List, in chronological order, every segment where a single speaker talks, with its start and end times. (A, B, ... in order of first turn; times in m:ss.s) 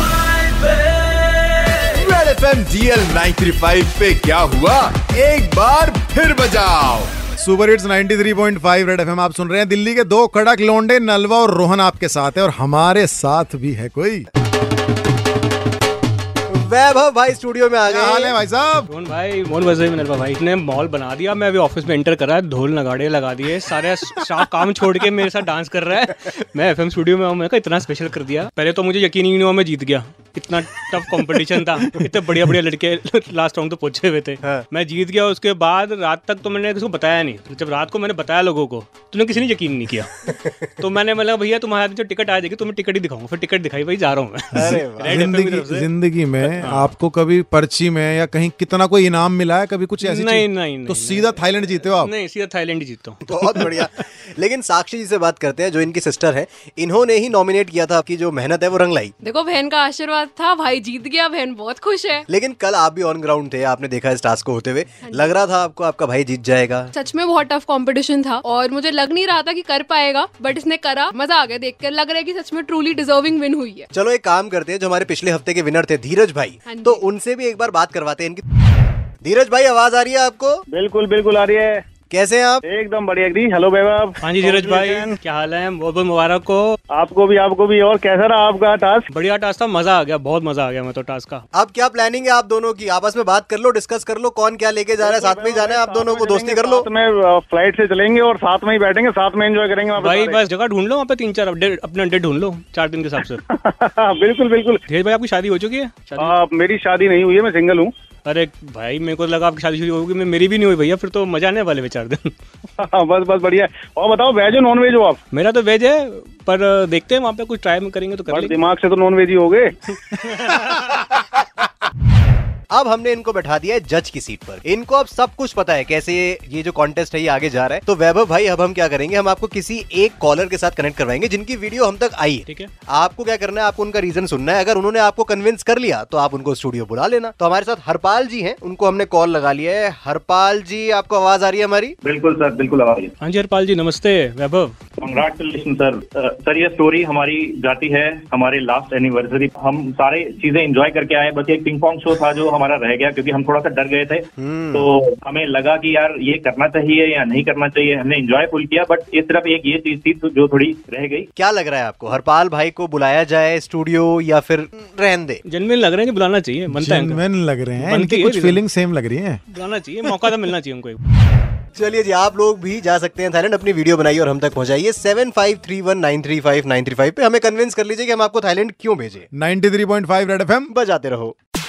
0:02.0-0:07.1 A
0:07.3-0:14.3 B
0:16.5-0:18.4 C
0:17.8-0:18.9 B
0:18.9-0:45.9 D
0:44.5-0:45.3 C
0:44.6-0:52.1 B
0:46.4-0:46.9 D
0:50.0-0:51.4 D
0:51.9-0:53.3 D
0:53.2-0:59.1 C
0:59.2-1:02.3 E
1:02.3-1:06.9 C
1:05.0-1:05.3 E
1:06.9-1:13.9 E
1:13.9-1:18.4 C
1:16.6-1:17.0 E
1:19.2-1:20.6 C
1:20.7-1:21.8 F
1:22.1-1:22.6 C
1:22.6-1:25.1 F
1:24.2-1:26.8 D
1:26.9-1:29.1 F
1:29.1-1:31.4 D
1:31.5-1:36.9 C
1:35.0-1:40.4 F
1:40.0-1:43.4 D
1:43.4-1:44.8 F
1:44.9-1:46.4 D
1:46.2-1:47.9 F
1:48.2-1:52.3 D
1:52.8-1:55.2 F
1:55.3-1:58.5 D
1:58.3-1:59.7 F
2:00.0-2:01.0 D
2:02.7-2:22.0 C
2:22.0-2:23.1 G
2:23.2-2:24.8 D
2:25.0-2:41.3 G
2:34.4-2:34.9 C
2:41.4-2:45.4 C
2:45.4-2:47.2 D
2:46.7-2:49.4 B
2:47.8-2:48.6 D
2:49.5-2:51.0 D
2:51.8-2:59.3 C
2:59.3-3:00.7 B
3:00.7-3:01.3 C